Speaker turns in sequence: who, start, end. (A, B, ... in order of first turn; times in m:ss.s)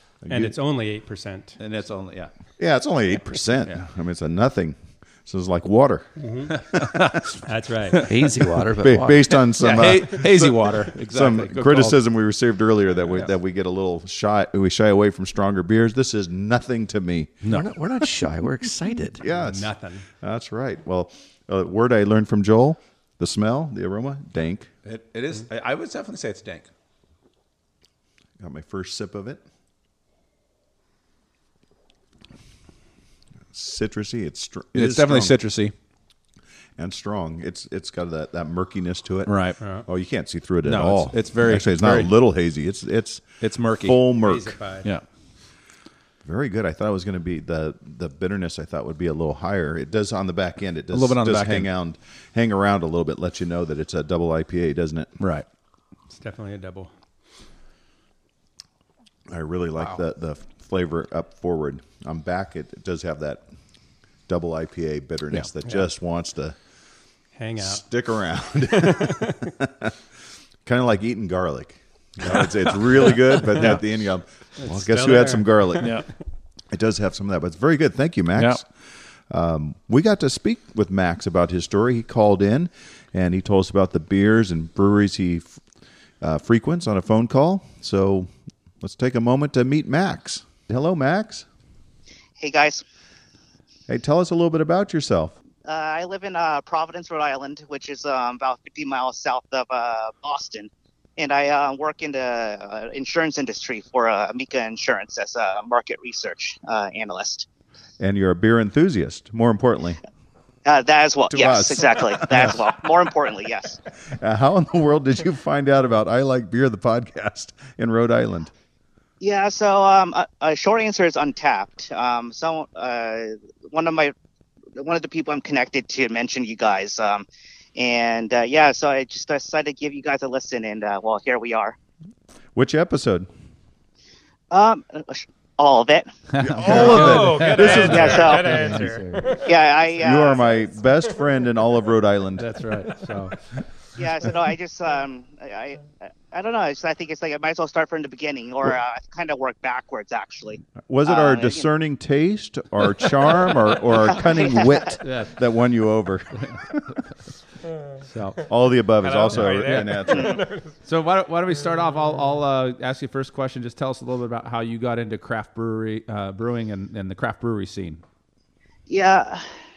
0:00.2-0:00.6 A
0:00.3-0:01.6 B
0:01.6-0:02.3 C
0:02.6-0:06.1 A
0:06.2-0:06.6 B
0:06.5-0:07.4 C
0:06.8-0:07.2 A
0:07.4-0:08.1 B
0:07.9-0:08.3 C
0:08.0-0:09.4 D
0:08.8-0:17.4 A
0:09.6-0:12.0 C
0:17.5-0:19.2 D
0:19.2-0:24.7 A
0:19.3-0:20.1 B
0:24.8-0:26.7 C
0:28.4-0:29.4 A
0:33.5-0:35.4 A
0:34.7-0:35.7 C
0:36.8-0:43.3 A
0:39.3-0:39.6 C
0:39.6-0:39.9 B
0:40.6-0:42.1 C
0:43.4-0:44.0 C
0:43.8-0:44.6 A
0:44.2-0:44.9 B
0:46.2-0:55.1 A
0:50.9-0:51.7 C
0:55.2-0:55.4 C
0:56.1-0:56.9 B
0:59.3-1:03.4 A
1:04.3-1:06.6 A
1:07.4-1:07.8 B
1:07.6-1:10.0 A
1:08.7-1:09.5 B
1:10.6-1:16.0 A
1:13.6-1:13.8 C
1:14.6-1:16.0 B
1:15.8-1:16.1 C
1:16.7-1:18.7 A
1:18.4-1:18.6 C
1:19.3-1:25.6 A
1:26.2-1:31.5 A
1:32.4-1:32.8 E
1:33.9-1:35.4 A
1:35.6-1:47.5 E
1:48.0-1:50.0 A
1:50.6-1:53.8 E
1:51.3-1:52.6 A
1:54.1-1:58.5 A
1:59.2-2:04.1 E
2:04.8-2:11.8 E
2:12.6-2:13.3 A
2:14.5-2:16.1 E
2:16.3-2:18.4 C
2:16.4-2:18.6 A
2:16.6-2:19.6 B
2:17.7-2:18.6 E
2:18.3-2:19.4 D
2:19.4-2:20.5 E
2:20.0-2:22.6 A
2:22.4-2:23.4 C
2:24.0-2:31.7 E
2:30.9-2:36.9 A
2:35.0-2:35.3 C
2:38.0-2:38.5 C
2:38.5-2:40.5 A
2:39.0-2:40.7 B
2:39.4-2:40.1 C
2:40.1-2:40.4 E
2:40.9-2:48.0 C
2:48.9-2:49.5 E